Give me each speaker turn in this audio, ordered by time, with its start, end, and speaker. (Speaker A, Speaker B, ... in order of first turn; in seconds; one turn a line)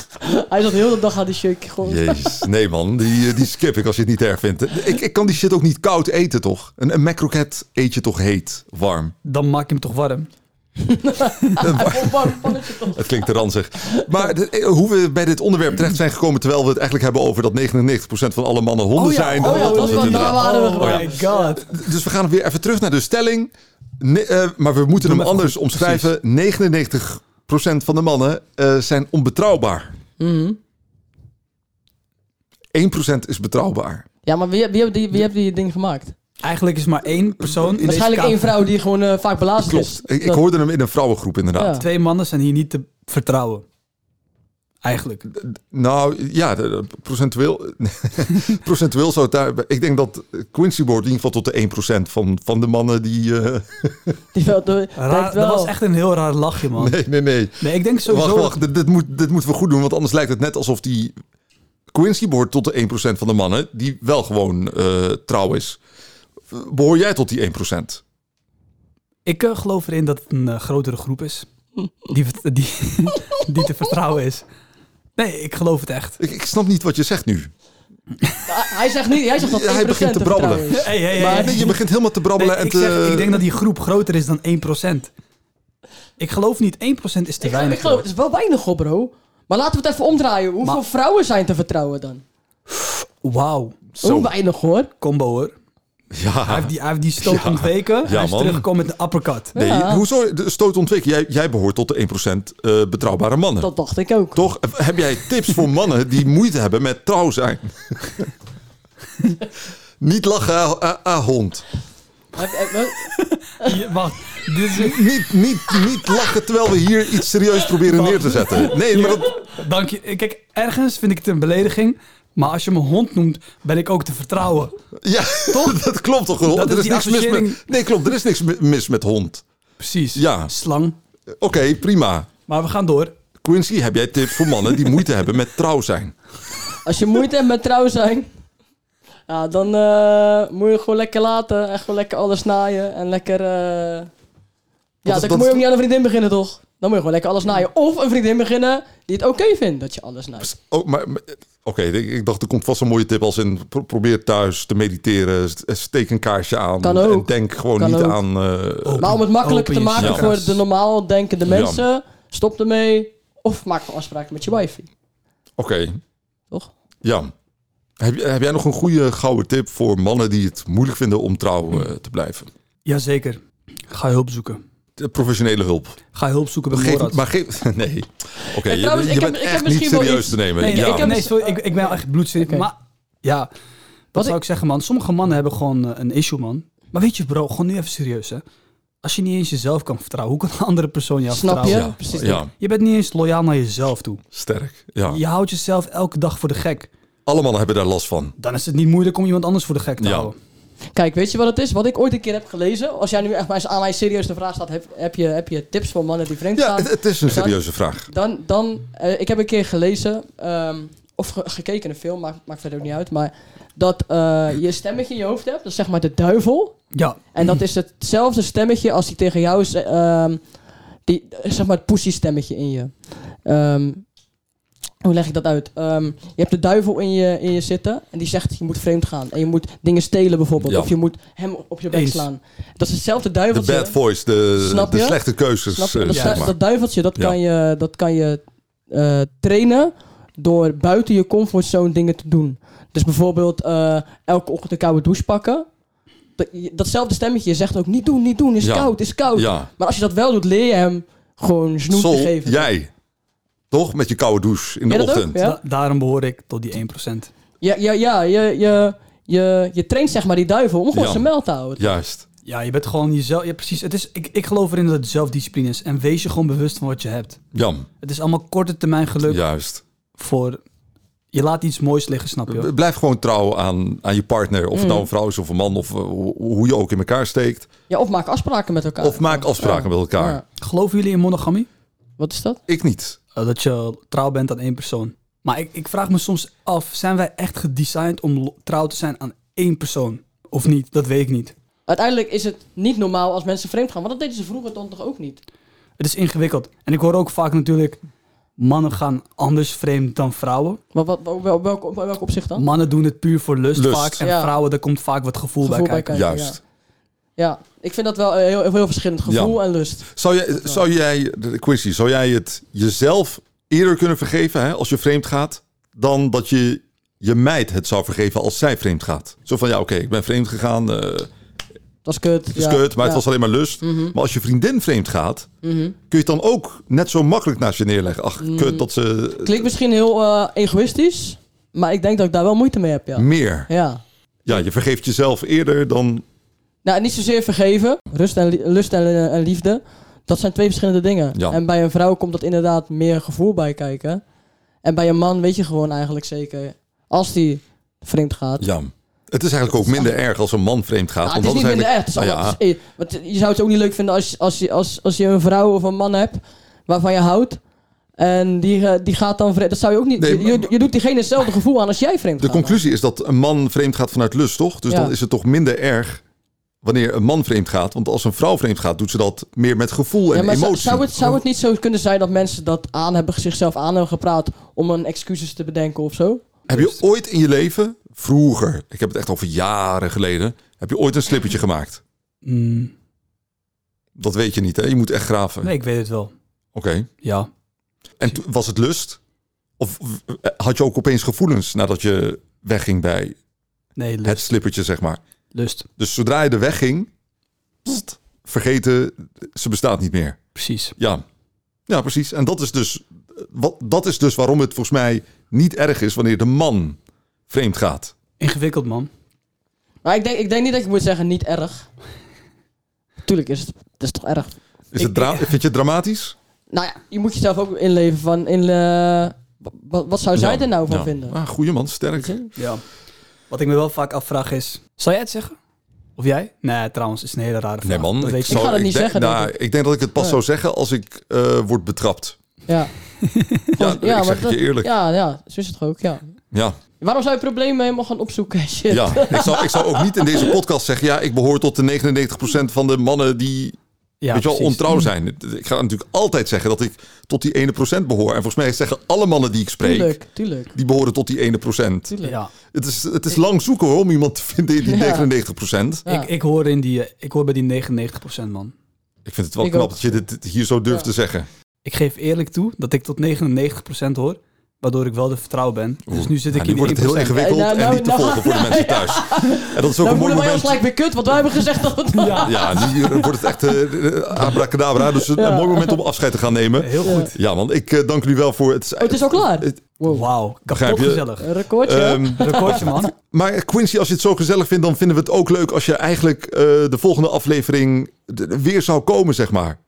Speaker A: 0.2-2.4
Speaker B: 1.8-9.1
Speaker C: 9.2-10.3
Speaker A: 10.8-13.3
Speaker B: 11.6-29.9
Speaker C: 19.0-21.7
Speaker A: 19.1-21.6
Speaker C: 25.0-26.1
Speaker A: 30.2-30.6
Speaker B: 32.7-34.1
Speaker A: 34.2-36.1
Speaker C: 36.4-38.5
Speaker A: 37.8-40.4
Speaker B: 39.6-41.8
Speaker A: 41.5-41.9
Speaker C: 41.8-43.6
Speaker C: 44.8-45.3
Speaker B: 45.3-54.2
Speaker A: 54.3-55.7
Speaker C: 55.0-57.0
Speaker B: 56.7-61.1
Speaker C: 57.6-58.6
Speaker B: 61.9-65.8
Speaker B: 66.5-68.0
Speaker C: 69.2-71.5
Speaker C: 72.1-74.5
Speaker C: 75.2-76.2
Speaker B: 76.2-77.5
Speaker A: 78.5-81.8
Speaker B: 79.4-83.4
Speaker C: 80.7-81.8
Speaker C: 82.3-85.1
Speaker C: 86.2-88.1
Speaker A: 87.4-92.2
Speaker C: 92.8-93.8
Speaker B: 93.9-94.3
Speaker A: 94.0-94.9
Speaker C: 95.0-95.5
Speaker B: 96.1-98.7
Speaker C: 96.5-99.5
Speaker A: 99.5-100.0
Speaker B: 99.6-103.7
Speaker A: 103.6-104.4
Speaker B: 104.3-108.3
Speaker B: 110.0-111.7
Speaker A: 112.3-113.8
Speaker C: 113.2-115.0
Speaker B: 114.7-119.4
Speaker C: 118.9-124.8
Speaker B: 125.0-129.4
Speaker C: 125.5-125.8
Speaker C: 126.4-127.6
Speaker C: 129.8-130.9
Speaker B: 130.2-130.5
Speaker B: 131.3-132.3
Speaker C: 132.5-133.1
Speaker B: 133.4-136.2
Speaker A: 136.8-138.3
Speaker A: 139.3-144.1
Speaker B: 145.0-145.7
Speaker A: 145.1-150.5
Speaker B: 150.4-159.1
Speaker A: 156.8-158.2
Speaker C: 158.8-160.6
Speaker A: 159.0-164.9
Speaker B: 160.0-160.3
Speaker B: 161.5-161.8
Speaker B: 165.6-166.0
Speaker B: 167.0-167.3
Speaker B: 168.0-172.5
Speaker C: 172.9-174.6
Speaker B: 175.0-176.0
Speaker C: 176.1-177.2
Speaker B: 176.7-181.1
Speaker A: 178.4-182.7
Speaker C: 180.6-183.5
Speaker C: 184.1-188.4
Speaker C: 189.0-191.9
Speaker A: 191.3-192.4
Speaker B: 191.7-192.5
Speaker C: 192.5-194.2
Speaker B: 194.3-195.2
Speaker C: 195.1-196.9
Speaker B: 197.3-198.3
Speaker C: 198.4-200.4
Speaker B: 200.0-200.3
Speaker A: 200.9-220.4
Speaker B: 206.5-208.1
Speaker C: 216.9-217.6
Speaker A: 221.1-224.1
Speaker A: 225.0-234.0
Speaker B: 230.6-230.9
Speaker C: 231.9-232.3
Speaker B: 233.5-236.6
Speaker A: 234.6-245.7
Speaker C: 236.1-236.5
Speaker A: 246.4-252.7
Speaker B: 248.6-249.7
Speaker B: 251.9-252.9
Speaker B: 253.7-255.4
Speaker A: 254.9-255.6
Speaker C: 255.4-257.3
Speaker A: 257.6-261.9
Speaker B: 260.9-262.2
Speaker C: 262.4-267.4
Speaker B: 267.5-267.9
Speaker C: 268.0-269.4
Speaker B: 269.3-269.8
Speaker C: 270.2-270.6
Speaker C: 271.3-272.7
Speaker B: 272.5-277.7
Speaker A: 274.7-275.1
Speaker A: 277.9-280.4
Speaker B: 279.0-280.4
Speaker C: 280.6-281.7
Speaker A: 282.2-282.6
Speaker B: 282.7-283.2
Speaker C: 283.4-291.6
Speaker A: 291.9-295.4
Speaker C: 296.0-298.0
Speaker C: 298.6-300.8
Speaker A: 300.9-302.7
Speaker C: 302.6-306.2
Speaker B: 303.8-304.2
Speaker A: 304.2-304.6
Speaker A: 305.6-306.6
Speaker B: 306.1-306.6
Speaker A: 307.4-310.8
Speaker B: 309.3-309.6
Speaker B: 310.1-321.3
Speaker A: 322.1-323.2
Speaker B: 322.5-325.5
Speaker A: 323.8-324.1
Speaker A: 325.6-326.0
Speaker B: 326.1-329.6
Speaker A: 328.4-328.9
Speaker A: 329.4-334.0
Speaker B: 333.2-333.7
Speaker B: 334.5-336.2
Speaker A: 336.8-344.2
Speaker A: 344.8-348.7
Speaker B: 348.6-352.6
Speaker A: 351.2-357.6
Speaker A: 358.2-362.8
Speaker B: 360.2-360.7
Speaker B: 362.4-366.2
Speaker A: 364.9-365.1
Speaker B: 366.8-371.4
Speaker A: 370.3-376.4
Speaker C: 376.7-377.0
Speaker B: 376.7-382.0
Speaker C: 382.4-382.9
Speaker B: 384.2-385.7
Speaker C: 385.6-386.3
Speaker B: 386.7-387.1
Speaker C: 387.2-387.5
Speaker B: 388.2-389.2
Speaker B: 389.8-393.4
Speaker C: 394.0-394.5
Speaker B: 394.2-395.2
Speaker C: 395.5-395.9
Speaker B: 396.0-397.1
Speaker B: 397.9-400.4
Speaker C: 400.6-400.9
Speaker B: 401.0-401.2
Speaker B: 401.9-407.0
Speaker B: 407.5-408.1
Speaker C: 408.4-409.1
Speaker A: 410.0-411.9
Speaker A: 413.2-414.6
Speaker B: 414.9-416.4
Speaker C: 415.0-415.5
Speaker A: 416.7-421.4
Speaker B: 420.3-422.4
Speaker A: 422.2-422.5
Speaker C: 422.6-422.8
Speaker C: 423.5-425.6
Speaker C: 426.2-428.6
Speaker B: 427.8-432.4
Speaker A: 428.5-429.6
Speaker C: 433.2-433.7
Speaker A: 433.8-436.3
Speaker B: 433.8-434.9
Speaker A: 437.0-440.5
Speaker B: 438.9-443.8
Speaker C: 444.2-445.1
Speaker B: 444.3-450.2
Speaker A: 449.8-450.7
Speaker B: 450.8-452.2
Speaker A: 452.1-452.4
Speaker C: 452.2-452.5
Speaker B: 452.7-456.1
Speaker A: 454.9-455.3
Speaker C: 456.1-458.7
Speaker B: 459.2-461.5
Speaker A: 459.6-460.1
Speaker C: 461.8-467.4
Speaker B: 466.1-470.8
Speaker A: 467.3-473.6
Speaker C: 472.1-472.9
Speaker B: 472.4-479.8
Speaker A: 475.0-476.0
Speaker C: 476.8-477.3
Speaker A: 477.0-477.3
Speaker A: 479.0-480.3
Speaker C: 480.1-481.5
Speaker B: 480.7-489.8
Speaker A: 481.4-482.9
Speaker C: 482.4-483.1